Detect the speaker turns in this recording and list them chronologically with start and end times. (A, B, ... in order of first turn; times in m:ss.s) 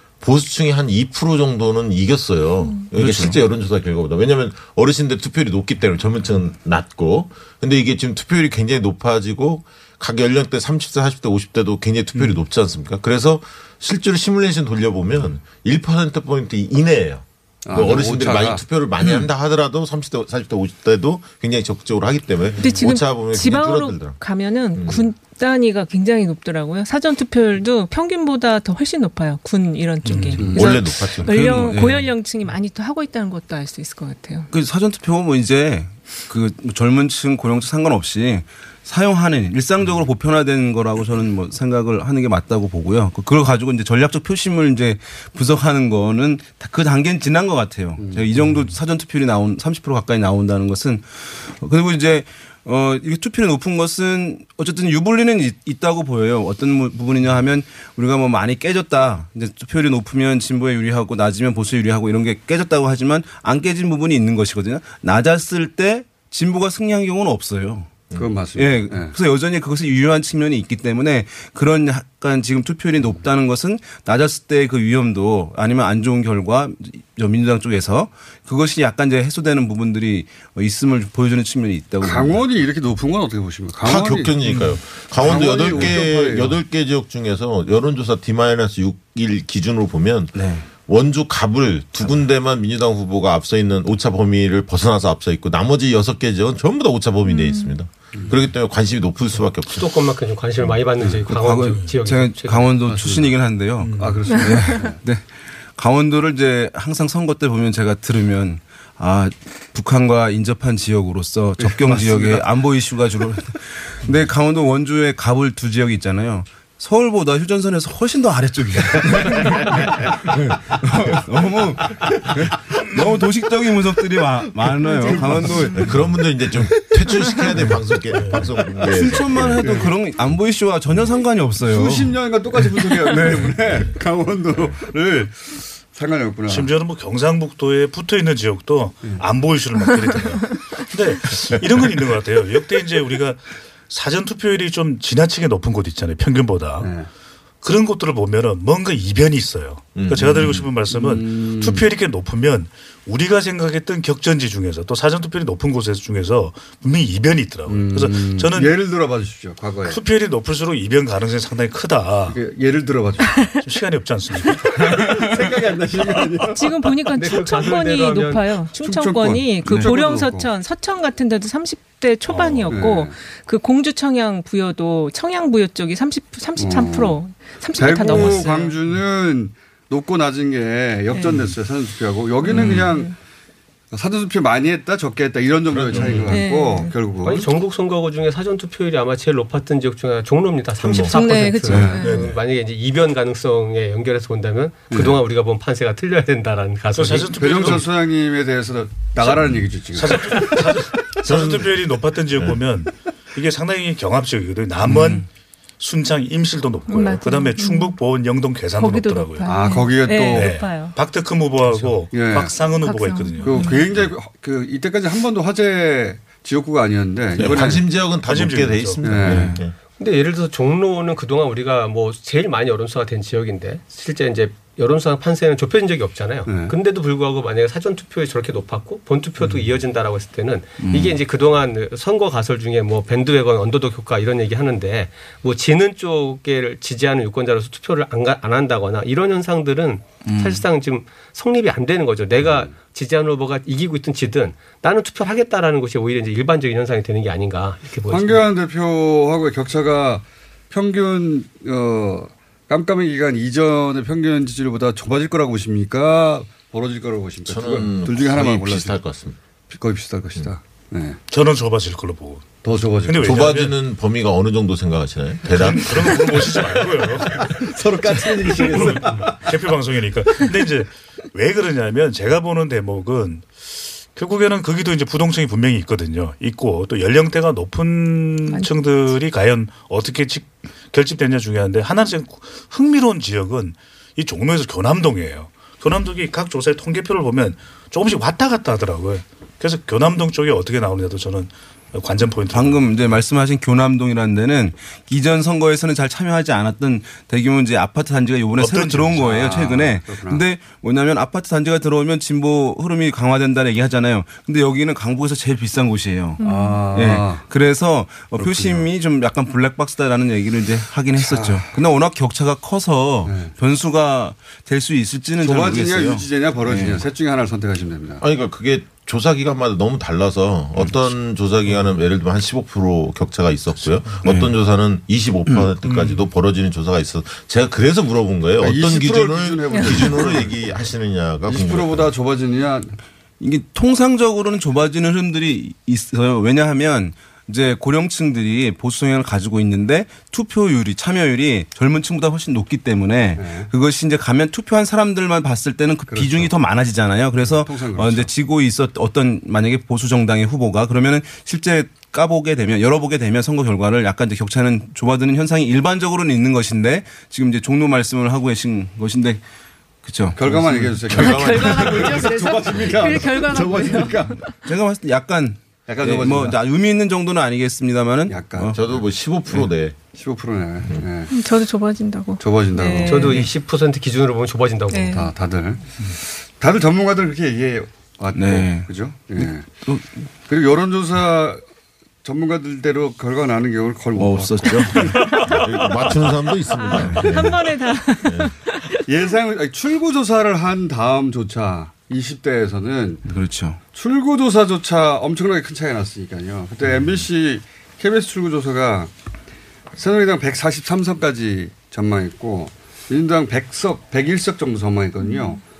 0:00.2-0:24.2 A
0:02.9-0:03.4 B
0:17.6-0:18.6 C
0:19.0-0:19.3 B
0:22.6-0:34.5 D
0:24.7-0:25.0 A
0:30.0-0:30.5 E
0:30.4-0:30.8 C
0:30.4-0:31.7 A
0:31.6-0:32.0 B
0:34.5-1:08.0 B
0:48.0-0:48.7 C
1:08.1-1:09.1 C
1:08.6-1:22.4 B
1:22.0-1:24.4 C
1:23.8-1:39.9 A
1:24.4-1:25.4 E
1:25.2-1:26.6 C
1:25.6-1:26.0 B
1:30.3-1:30.7 B
1:37.3-1:37.7 D
1:39.7-1:42.7 F
1:41.3-2:05.9 B
1:42.9-1:43.3 C
1:43.8-1:44.9 E
1:44.0-1:45.0 C
1:51.6-1:52.4 C
2:04.9-2:05.8 C
2:05.8-2:09.8 A
2:08.1-2:08.5 E
2:08.8-2:12.2 B
2:09.6-2:09.9 C
2:11.7-2:16.8 C
2:13.0-2:13.5 B
2:16.5-2:26.9 E
2:26.8-2:27.1 C
2:27.6-2:38.8 E
2:29.9-2:30.7 A
2:30.3-2:31.9 C
2:37.6-2:40.0 C
2:39.8-2:42.4 E
2:42.3-2:43.5 C
2:43.6-2:44.6 E
2:44.5-2:47.4 C
2:46.5-2:58.8 D
2:47.2-2:48.6 F
2:48.8-2:50.5 C
2:52.3-2:52.8 E
2:52.7-2:53.2 C
2:56.6-2:57.2 C
2:57.7-3:03.1 C
2:58.1-2:58.5 F
3:02.4-3:03.1 D
3:02.5-3:02.8 B
3:03.9-3:07.5 C
3:05.7-3:06.4 A
3:06.3-3:06.9 D
3:07.2-3:17.8 F
3:10.8-3:11.2 A
3:11.1-3:12.2 D
3:11.7-3:12.2 C
3:12.0-3:12.4 E
3:14.9-3:15.2 C
3:16.9-3:17.9 E
3:17.3-3:20.7 C
3:19.2-3:25.2 E
3:21.2-3:22.6 A
3:24.8-3:25.2 C
3:25.8-3:33.9 E
3:26.9-3:28.0 D
3:28.8-3:31.0 D
3:29.5-3:30.6 C
3:32.1-3:32.7 C
3:32.8-3:33.8 D
3:33.4-3:37.8 C
3:37.4-3:39.7 A
3:38.1-3:39.5 E
3:39.0-3:39.5 C
3:39.2-3:39.6 B
3:40.0-4:08.4 F
3:46.4-3:46.7 C
3:50.8-3:51.2 B
4:00.2-4:00.6 B
4:08.1-4:19.0 C
4:17.4-4:19.4 A
4:19.7-4:21.2 C
4:21.3-4:23.7 E
4:22.6-4:23.6 C
4:23.2-4:26.7 A
4:25.5-4:27.5 E
4:26.3-4:29.6 C
4:28.2-4:53.1 E
4:52.5-5:06.4 B
4:58.6-4:59.2 E
4:59.1-5:00.4 C
5:06.4-5:06.8 D
5:06.4-5:07.5 C
5:06.9-5:17.0 B
5:08.3-5:08.9 C
5:11.2-5:11.7 C
5:13.2-5:13.5 C
5:15.4-5:18.2 C
5:18.2-5:32.1 A
5:20.8-5:21.1 B
5:24.2-5:24.5 B
5:25.5-5:25.7 B
5:28.6-5:30.7 C
5:31.5-5:33.0 C
5:33.4-5:59.4 B
5:43.4-5:43.7 C
5:46.1-5:46.5 C
5:47.4-5:48.3 C
6:00.0-6:00.4 B
6:00.3-6:04.4 C
6:00.4-6:03.2 A
6:01.2-6:04.4 D
6:04.5-6:08.8 B
6:05.9-6:06.6 C
6:08.3-6:08.7 C
6:08.7-6:10.0 A
6:10.1-6:11.3 C
6:11.3-6:13.4 D
6:12.4-6:13.3 C
6:13.0-6:15.2 F
6:13.2-6:13.5 B
6:14.9-6:15.3 D
6:15.1-6:19.7 C
6:18.3-6:20.1 B
6:20.5-6:21.6 C
6:22.2-6:25.4 C
6:24.2-6:25.3 B
6:25.4-6:27.7 A
6:26.7-6:29.0 D
6:28.2-6:28.5 A
6:29.0-6:33.2 C
6:33.3-6:33.8 B
6:33.9-6:39.1 C
6:39.9-6:45.6 C
6:45.2-6:45.6 D